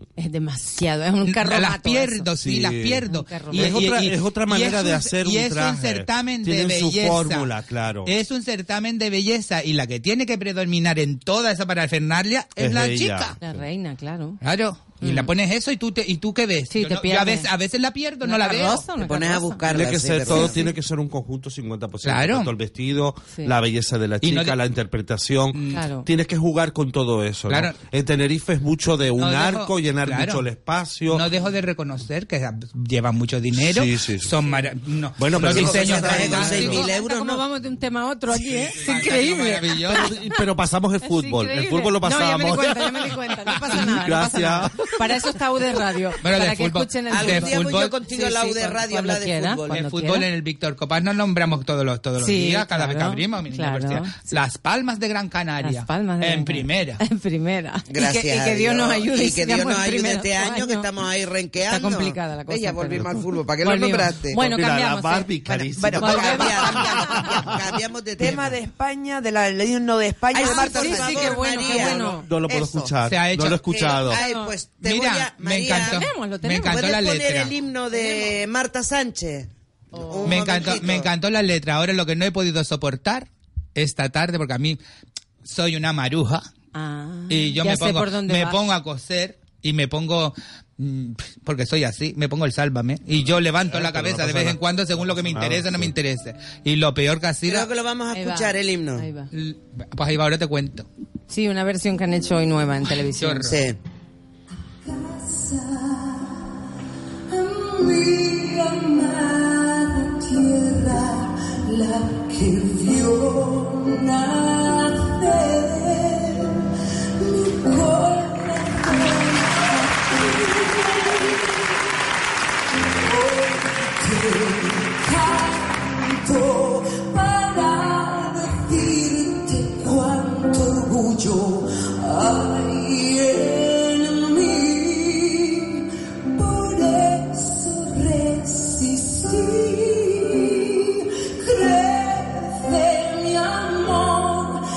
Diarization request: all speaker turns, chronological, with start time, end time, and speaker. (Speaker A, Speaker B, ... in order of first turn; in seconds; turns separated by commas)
Speaker A: 0.2-2.2, Speaker B: 1.2-7.5, Speaker C: 2.4-8.1, Speaker A: 3.1-3.9, Speaker B: 8.0-13.4, Speaker C: 12.6-13.6, Speaker A: 13.4-14.4, Speaker B: 14.4-18.9, Speaker A: 15.0-15.3, Speaker A: 16.7-17.5, Speaker A: 18.2-20.6, Speaker D: 19.0-20.6, Speaker C: 19.7-31.3, Speaker B: 22.0-22.5, Speaker B: 24.2-24.6, Speaker B: 25.5-25.8, Speaker A: 25.7-26.1, Speaker B: 27.5-27.8, Speaker B: 29.1-30.4, Speaker B: 31.1-36.9, Speaker C: 33.5-34.4, Speaker C: 35.2-36.8, Speaker D: 35.4-37.5, Speaker A: 36.2-40.3, Speaker C: 38.4-39.1, Speaker B: 38.8-40.1, Speaker C: 39.9-44.9, Speaker A: 41.0-50.2, Speaker B: 46.2-47.9, Speaker D: 47.1-49.8, Speaker B: 49.7-57.0, Speaker A: 52.2-54.3, Speaker A: 55.6-60.9, Speaker D: 57.9-64.4, Speaker A: 61.6-65.3, Speaker C: 64.3-67.5, Speaker D: 65.4-68.5, Speaker E: 65.8-66.1, Speaker A: 66.0-67.2, Speaker E: 68.2-72.9, Speaker D: 70.3-72.2, Speaker A: 70.3-72.3, Speaker C: 71.8-74.2, Speaker B: 73.0-73.6, Speaker D: 73.6-76.0, Speaker A: 74.1-74.5, Speaker B: 74.8-77.5, Speaker A: 75.6-76.9, Speaker D: 76.6-81.1, Speaker A: 77.9-78.3, Speaker A: 79.9-80.6, Speaker B: 80.2-84.8, Speaker B: 85.4-86.5, Speaker A: 86.7-88.6, Speaker B: 87.3-97.7, Speaker C: 93.7-95.9, Speaker D: 97.4-99.0, Speaker A: 98.1-99.3, Speaker B: 99.3-100.8, Speaker A: 101.3-103.6, Speaker B: 103.1-103.6, Speaker D: 103.4-103.8, Speaker F: 107.8-109.2, Speaker F: 110.7-111.2, Speaker F: 111.8-114.3, Speaker F: 117.6-119.0, Speaker F: 123.2-125.6, Speaker F: 126.2-128.2, Speaker F: 128.7-134.5, Speaker F: 136.5-137.2, Speaker F: 143.3-143.9